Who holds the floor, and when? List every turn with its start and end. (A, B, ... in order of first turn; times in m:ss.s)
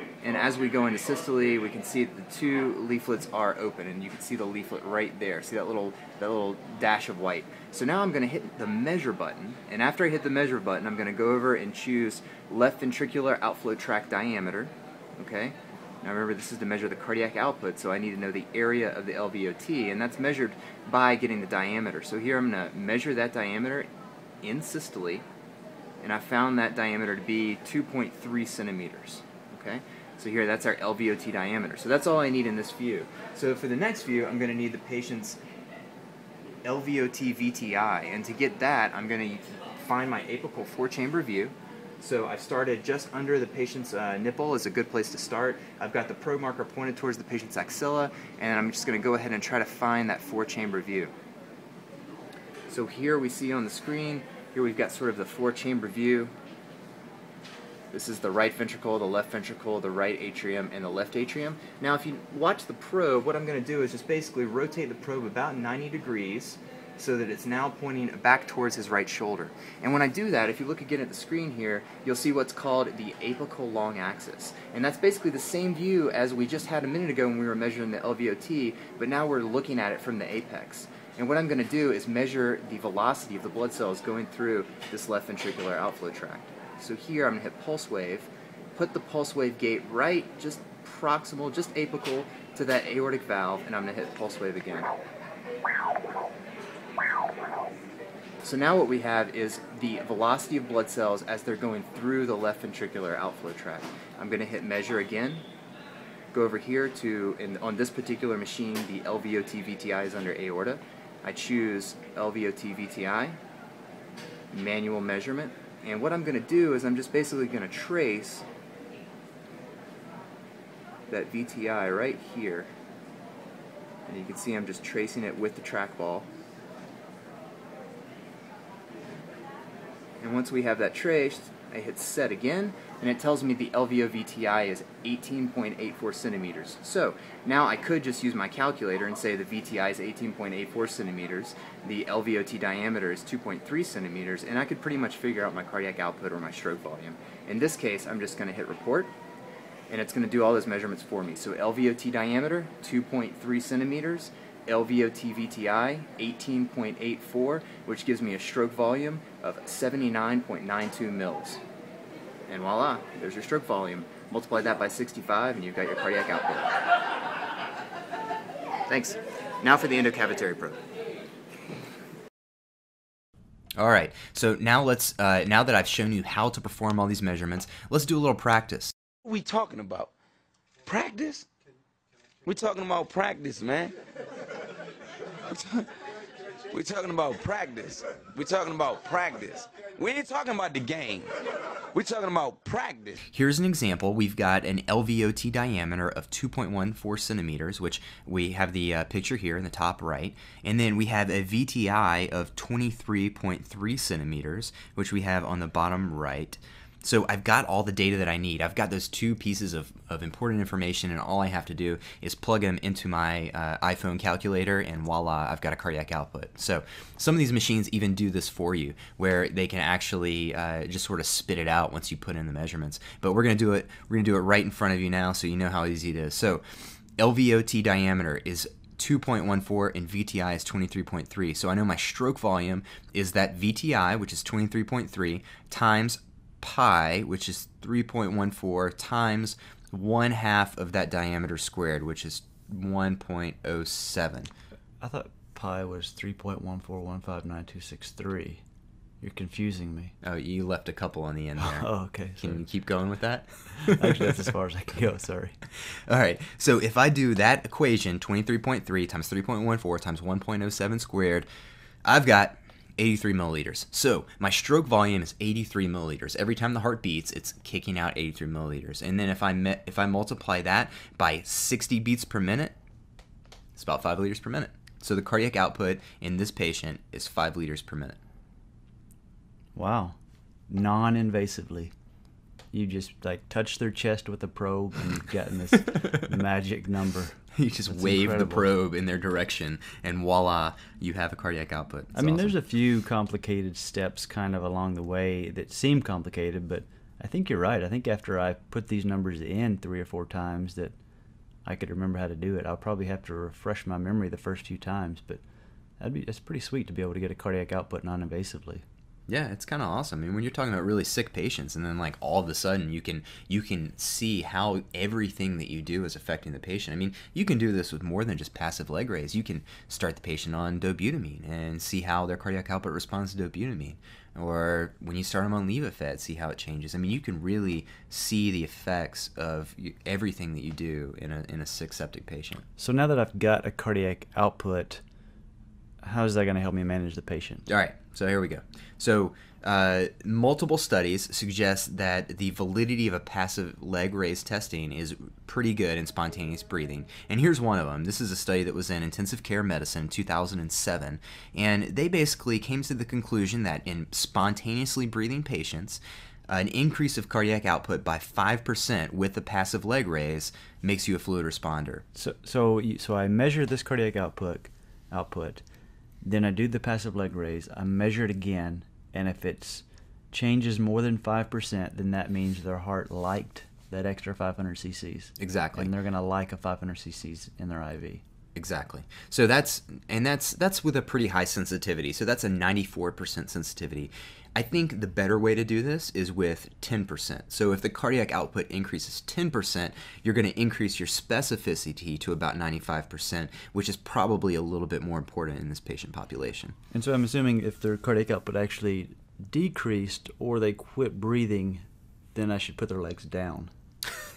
0:00.2-0:23.9 A
0:24.4-0:25.2 A
0:26.0-0:35.4 A
0:36.6-0:51.1 A
0:52.7-0:56.3 A
0:57.9-1:34.9 A
1:38.4-1:45.4 A
1:46.3-1:53.4 A
1:54.5-1:58.4 A
2:01.1-2:02.7 A
2:04.1-2:06.3 A
2:10.2-2:29.1 A
2:29.9-2:41.6 A
2:42.5-2:46.8 A
2:48.9-2:50.8 A
2:53.8-2:58.9 A
2:59.2-3:00.1 B
3:00.8-3:01.5 B
3:02.4-3:03.9 B
3:05.5-3:05.9 B
3:06.7-3:11.3 B
3:11.9-3:13.2 B
3:13.3-3:46.6 A
3:47.2-4:04.5 A
4:05.0-4:08.6 C
4:09.2-4:10.1 C
4:10.2-4:14.3 A
4:11.6-4:12.6 C
4:13.9-4:15.6 C
4:16.1-4:21.5 A
4:22.0-4:32.7 A
4:33.8-4:38.2 A
4:39.7-4:40.2 C
4:40.7-4:41.9 C
4:42.7-4:47.4 C
4:47.6-4:52.6 A
4:47.9-4:48.7 C
4:52.1-5:00.9 C
5:01.6-5:05.4 C
5:06.0-5:08.8 C
5:09.3-5:32.6 A
5:32.8-5:35.0 C
5:36.0-5:37.6 C
5:37.7-6:02.0 A
6:02.1-6:05.6 C
6:06.2-6:18.2 C
6:15.4-6:15.9 A
6:18.6-6:36.7 A
6:36.9-6:41.8 C
6:42.3-6:43.7 C